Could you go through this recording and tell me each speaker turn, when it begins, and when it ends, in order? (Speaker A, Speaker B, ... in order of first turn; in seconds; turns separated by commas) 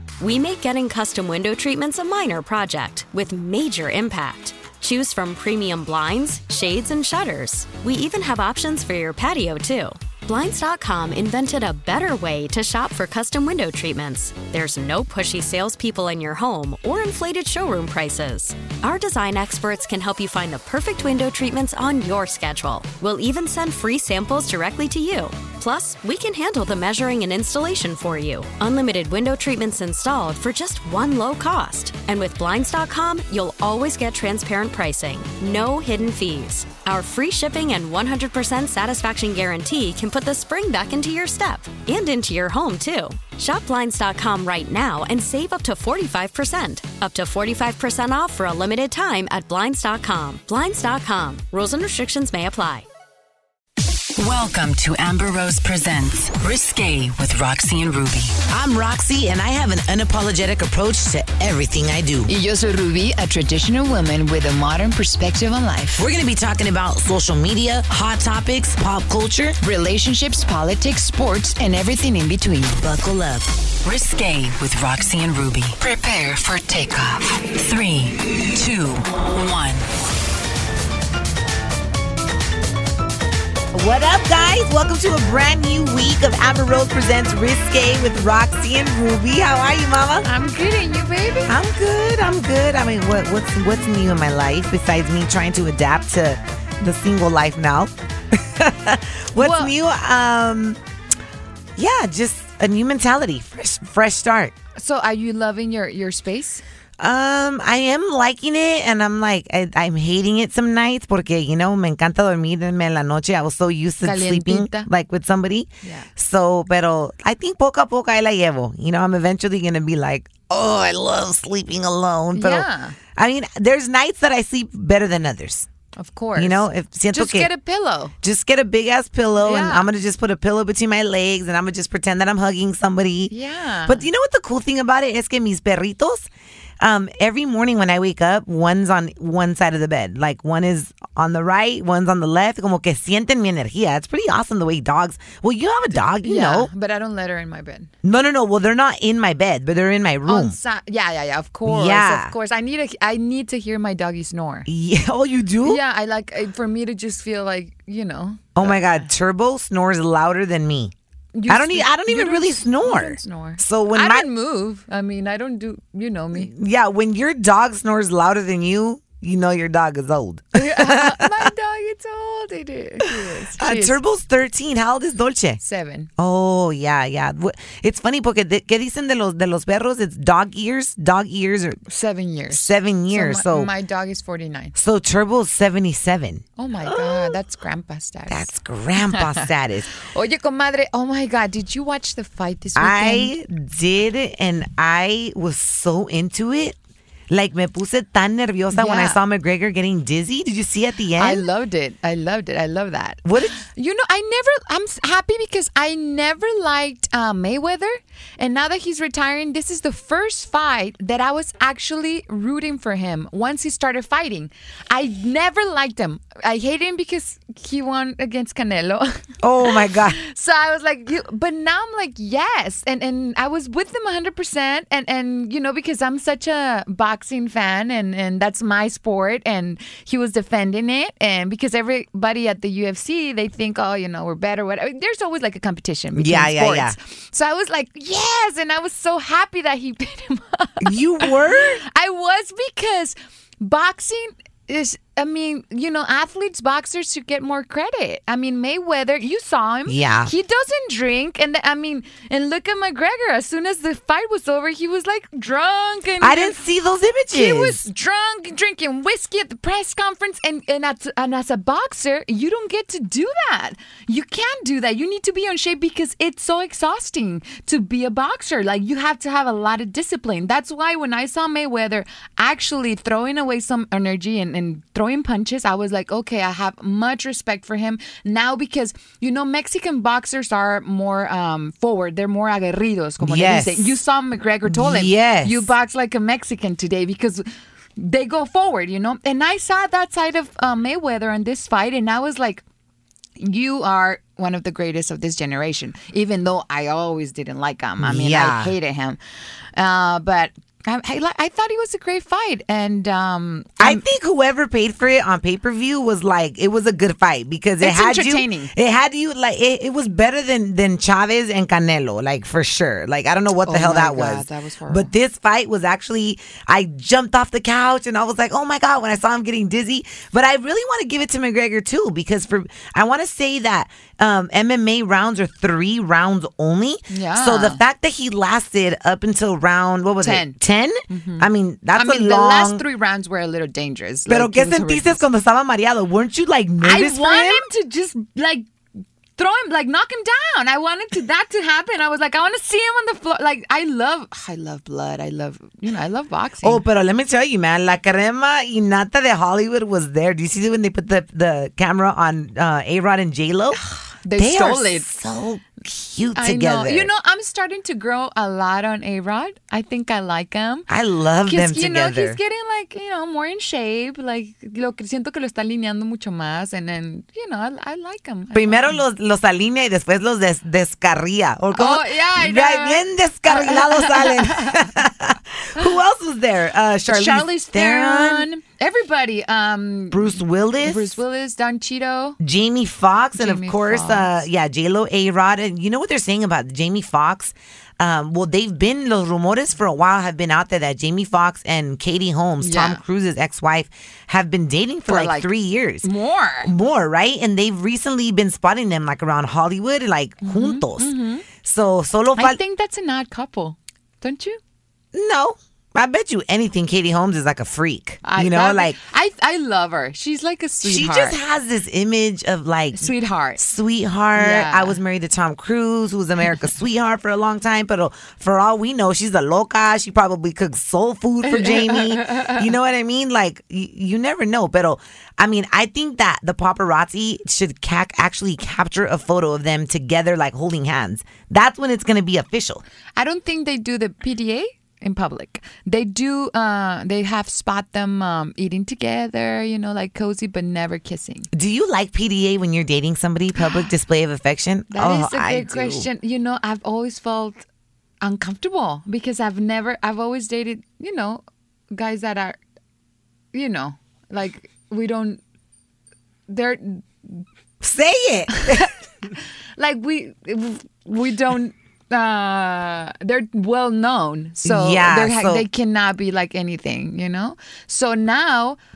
Speaker A: 0.2-52.9, Speaker B: 54.2-58.4, Speaker C: 58.5-62.3, Speaker D: 62.3-66.0, Speaker C: 66.0-69.6, Speaker D: 69.6-72.8, Speaker C: 72.8-73.5, Speaker B: 73.8-79.9, Speaker C: 83.7-90.3, Speaker D: 90.2-91.5, Speaker C: 91.5-100.8, Speaker D: 99.4-99.7, Speaker C: 101.8-104.5, Speaker D: 104.8-106.6, Speaker C: 107.0-125.7, Speaker D: 114.0-114.9, Speaker D: 115.8-116.1, Speaker D: 122.3-123.0, Speaker D: 126.0-128.1, Speaker C: 126.3-127.5, Speaker C: 128.2-133.3, Speaker D: 129.4-129.9, Speaker D: 133.3-134.1, Speaker C: 133.9-136.3, Speaker C: 136.8-146.7, Speaker D: 145.9-147.9, Speaker C: 148.0-150.6, Speaker D: 150.3-154.7, Speaker C: 151.7-152.3, Speaker C: 154.7-155.8, Speaker D: 155.6-159.1, Speaker C: 158.6-160.9, Speaker D: 161.3-166.5, Speaker C: 161.5-164.3, Speaker C: 166.3-171.5, Speaker D: 170.5-174.0, Speaker C: 173.1-175.6, Speaker D: 175.6-176.1, Speaker C: 176.2-181.8, Speaker D: 181.9-184.7, Speaker C: 182.5-183.7, Speaker C: 184.8-187.4, Speaker D: 186.6-188.5, Speaker C: 188.3-189.9, Speaker D: 190.0-193.3, Speaker C: 192.8-196.8, Speaker C: 197.3-201.4, Speaker D: 198.7-199.2, Speaker D: 201.2-241.3, Speaker C: 203.2-203.6, Speaker C: 219.4-220.2, Speaker C: 236.2-237.0, Speaker C: 240.8-241.8, Speaker D: 241.9-256.6, Speaker C: 249.9-250.3, Speaker C: 256.2-257.8, Speaker D: 257.3-287.4, Speaker C: 283.2-284.0, Speaker C: 284.7-285.7, Speaker D: 288.0-292.6, Speaker D: 293.4-299.2, Speaker C: 298.0-298.8, Speaker D: 299.8-304.0, Speaker C: 303.8-332.8, Speaker D: 307.8-308.7, Speaker D: 313.6-315.1, Speaker D: 327.1-327.8, Speaker D: 330.2-330.6, Speaker D: 331.1-335.2, Speaker C: 334.3-337.7, Speaker D: 336.8-338.6, Speaker D: 339.4-346.8, Speaker C: 346.6-353.8, Speaker D: 353.7-355.1, Speaker C: 354.4-357.1, Speaker D: 356.4-360.9, Speaker C: 360.9-362.4, Speaker D: 361.5-369.0, Speaker C: 368.5-378.5, Speaker D: 371.8-374.8, Speaker D: 377.1-382.4, Speaker C: 380.1-381.2, Speaker C: 382.4-396.1, Speaker D: 383.4-384.3, Speaker D: 392.6-393.0, Speaker D: 395.1-395.5, Speaker D: 396.0-396.7, Speaker C: 396.6-402.6, Speaker D: 400.4-401.5, Speaker D: 402.3-404.6, Speaker C: 405.1-409.0, Speaker D: 408.2-411.4, Speaker C: 410.8-432.8, Speaker D: 412.9-413.6, Speaker D: 414.3-415.0, Speaker D: 421.5-422.6, Speaker D: 433.2-441.5, Speaker C: 441.5-446.1, Speaker D: 444.9-447.6, Speaker D: 448.2-452.6, Speaker D: 453.5-455.4, Speaker D: 456.5-457.4, Speaker C: 457.8-458.9, Speaker D: 458.5-458.9, Speaker D: 459.8-468.8, Speaker C: 464.6-465.7